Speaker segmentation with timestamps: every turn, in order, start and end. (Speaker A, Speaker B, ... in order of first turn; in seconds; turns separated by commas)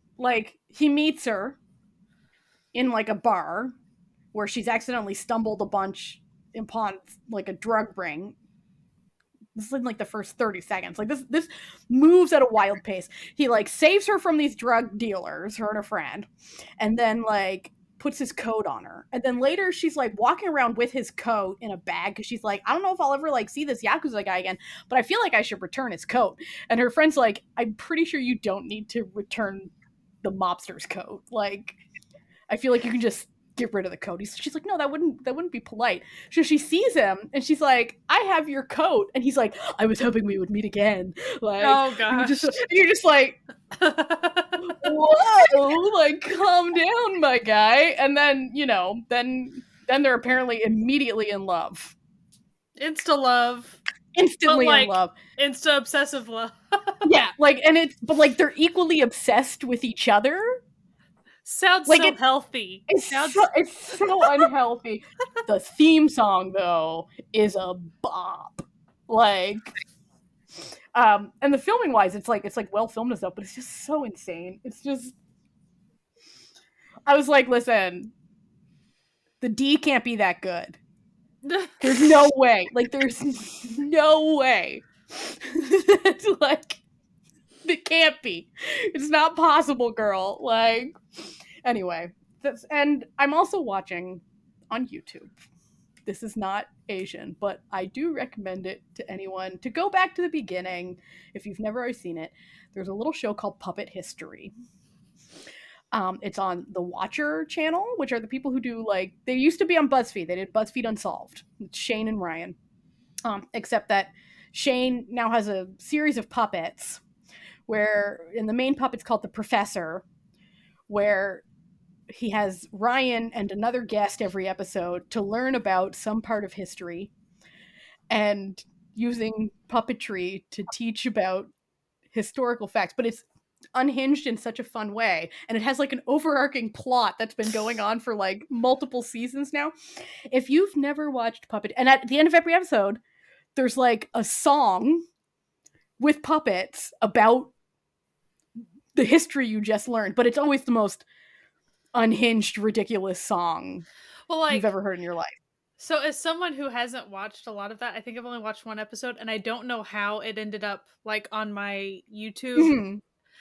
Speaker A: 0.2-1.6, Speaker A: 2.7-3.8, Speaker A: 4.3-8.3, Speaker A: 9.6-16.3, Speaker A: 16.8-29.7, Speaker A: 30.2-31.8, Speaker A: 32.5-43.4, Speaker B: 41.6-42.6, Speaker B: 43.8-45.0, Speaker A: 44.6-51.9, Speaker B: 52.8-53.8, Speaker A: 54.1-55.1, Speaker B: 54.5-57.1, Speaker A: 57.0-60.6, Speaker B: 61.5-64.5, Speaker A: 61.9-62.2, Speaker A: 62.9-69.7, Speaker A: 71.0-75.2, Speaker A: 77.1-78.1, Speaker A: 79.4-80.8, Speaker B: 81.5-82.2, Speaker A: 81.8-86.8, Speaker A: 87.7-91.0, Speaker A: 91.7-95.3, Speaker A: 96.1-104.5, Speaker A: 105.9-112.6, Speaker A: 113.3-117.0, Speaker A: 117.7-120.0, Speaker A: 120.9-121.4, Speaker A: 122.1-127.1, Speaker A: 128.1-131.5, Speaker A: 132.1-133.2, Speaker A: 133.8-139.7, Speaker A: 140.3-143.0, Speaker A: 143.6-145.1, Speaker A: 146.0-147.5, Speaker A: 148.9-151.0, Speaker A: 151.9-153.9, Speaker B: 154.3-154.7, Speaker A: 154.5-155.4, Speaker B: 155.8-162.8, Speaker A: 162.6-163.0